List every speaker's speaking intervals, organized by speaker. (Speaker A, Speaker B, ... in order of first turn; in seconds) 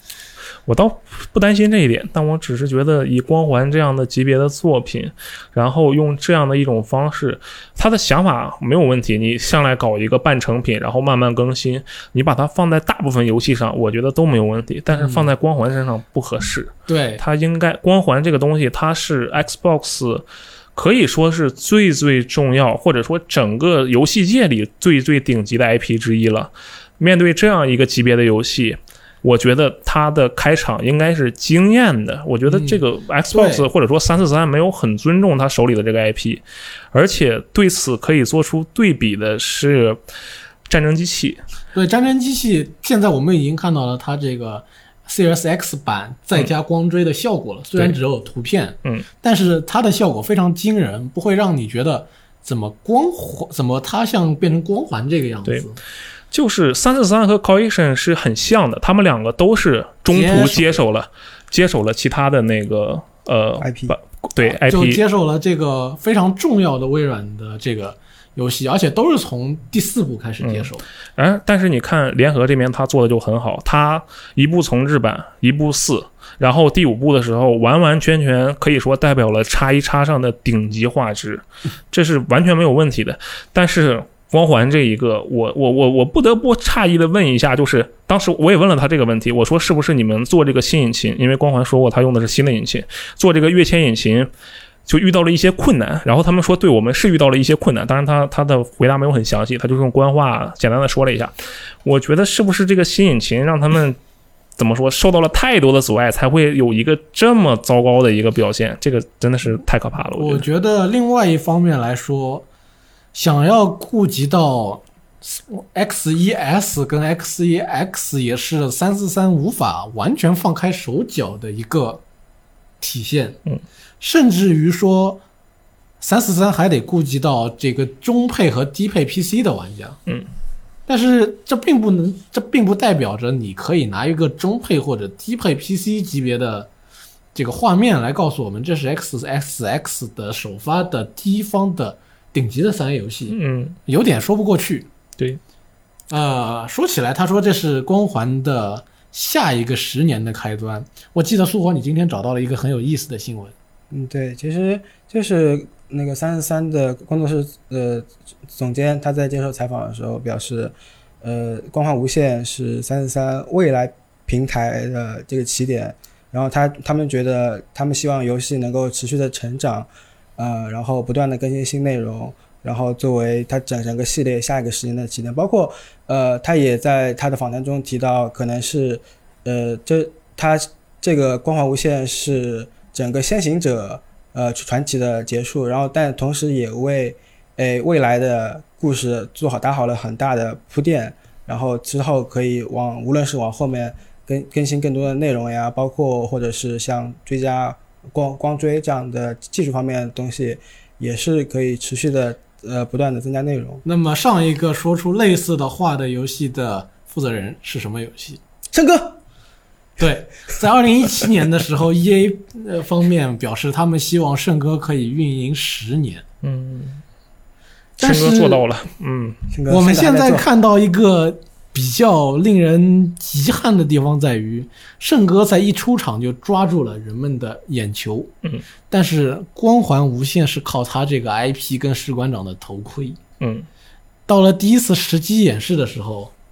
Speaker A: 0.7-40.0, 40.7-41.4, 56.3-65.0, 70.4-94.3, 94.9-104.0, 104.6-110.5, 143.3-143.8, 216.4-217.0, 218.0-219.4, 233.4-233.7
Speaker B: 14.9-15.3, 16.9-17.2, 32.5-33.7, 41.7-55.8, 60.1-60.8, 64.4-70.8, 110.2-112.5, 113.1-122.0, 122.8-123.4, 124.0-125.2, 126.0-130.0, 130.9-136.7, 137.3-144.9, 146.1-153.5, 203.8-208.4, 210.0-216.2, 218.0-218.6, 219.7-228.3, 228.9-233.2, 234.3-236.3
Speaker C: 63.6-64.0, 153.9-203.8, 208.7-209.2, 219.5-220.5